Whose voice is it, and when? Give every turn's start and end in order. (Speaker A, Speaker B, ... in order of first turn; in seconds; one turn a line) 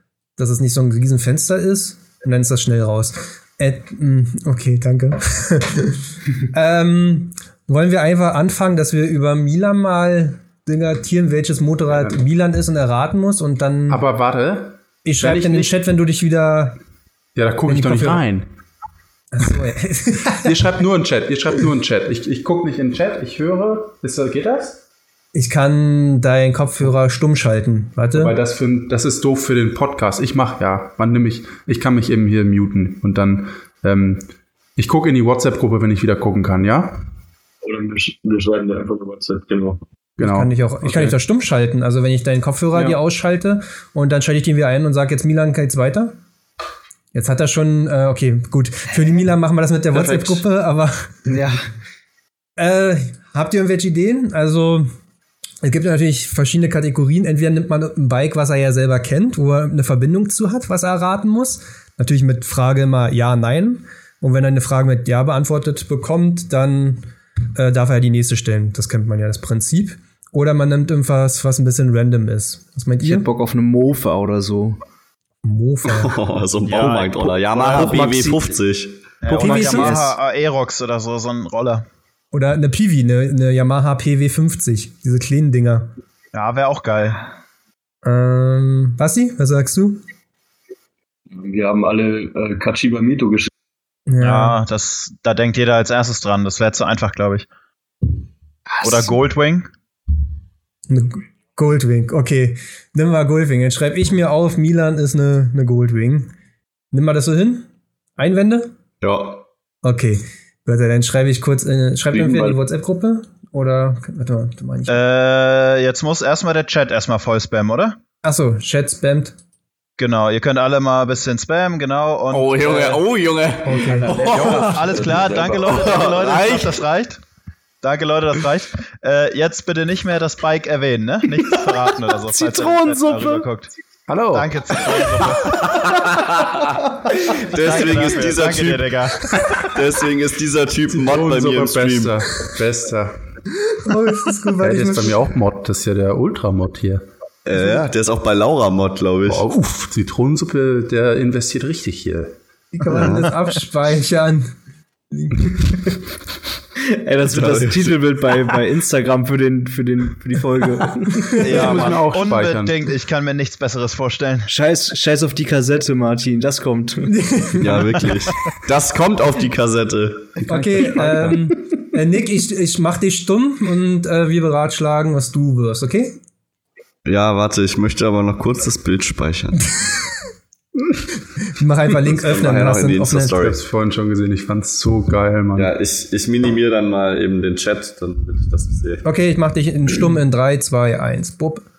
Speaker A: 0.4-14.0
Speaker B: 11.9-12.2
Speaker B: 13.9-15.7
Speaker A: 15.0-16.8
Speaker B: 17.3-18.5
Speaker A: 17.7-18.2
Speaker A: 19.3-20.5
Speaker B: 20.2-24.8
Speaker A: 25.3-28.4
Speaker B: 28.1-34.2
Speaker B: 34.8-37.0
Speaker C: 37.6-39.8
Speaker B: 40.2-41.1
Speaker A: 40.2-46.1
Speaker A: 47.1-51.1
Speaker D: 49.9-50.4
Speaker E: 51.3-51.6
Speaker A: 52.6-54.9
Speaker A: 55.6-73.3
Speaker E: 73.0-74.8
Speaker A: 75.4-76.1
Speaker D: 75.8-79.1
Speaker F: 76.6-78.0
Speaker F: 79.2-81.8
Speaker E: 79.3-80.2
Speaker A: 79.3-80.1
Speaker A: 82.3-85.9
Speaker F: 86.3-87.2
Speaker A: 88.0-90.0
Speaker C: 91.3-93.5
Speaker A: 94.1-94.6
Speaker F: 94.2-97.5
Speaker E: 98.8-99.1
Speaker F: 98.8-99.7
Speaker A: 100.9-106.3
Speaker A: 106.9-107.7
Speaker A: 108.2-108.7
Speaker D: 109.0-109.4
Speaker A: 109.8-115.0
Speaker C: 112.1-112.6
Speaker F: 114.9-118.0
Speaker A: 118.2-119.3
Speaker F: 120.0-123.0
Speaker D: 122.3-126.8
Speaker A: 123.6-124.1
Speaker C: 123.9-126.0
Speaker F: 124.1-127.2
Speaker F: 127.8-133.7
Speaker D: 132.4-133.4
Speaker B: 134.1-134.6
Speaker F: 134.3-135.7
Speaker D: 135.4-142.2
Speaker F: 137.5-139.4
Speaker B: 140.9-143.2
Speaker A: 143.8-145.2
Speaker B: 144.6-147.0
Speaker D: 147.4-149.4
Speaker B: 149.2-152.3
Speaker A: 152.7-154.5
Speaker D: 152.9-153.3
Speaker A: 155.1-155.9
Speaker E: 156.8-161.6
Speaker D: 157.3-158.5
Speaker A: 161.1-161.4
Speaker F: 161.4-164.5
Speaker B: 161.4-162.8
Speaker E: 164.5-167.2
Speaker A: 167.0-168.1
Speaker D: 167.6-170.5
Speaker A: 170.5-176.2
Speaker E: 170.5-171.4
Speaker D: 177.0-179.8
Speaker A: 181.4-183.4
Speaker D: 182.1-183.6
Speaker B: 183.3-185.7
Speaker D: 185.6-189.0
Speaker A: 189.0-191.6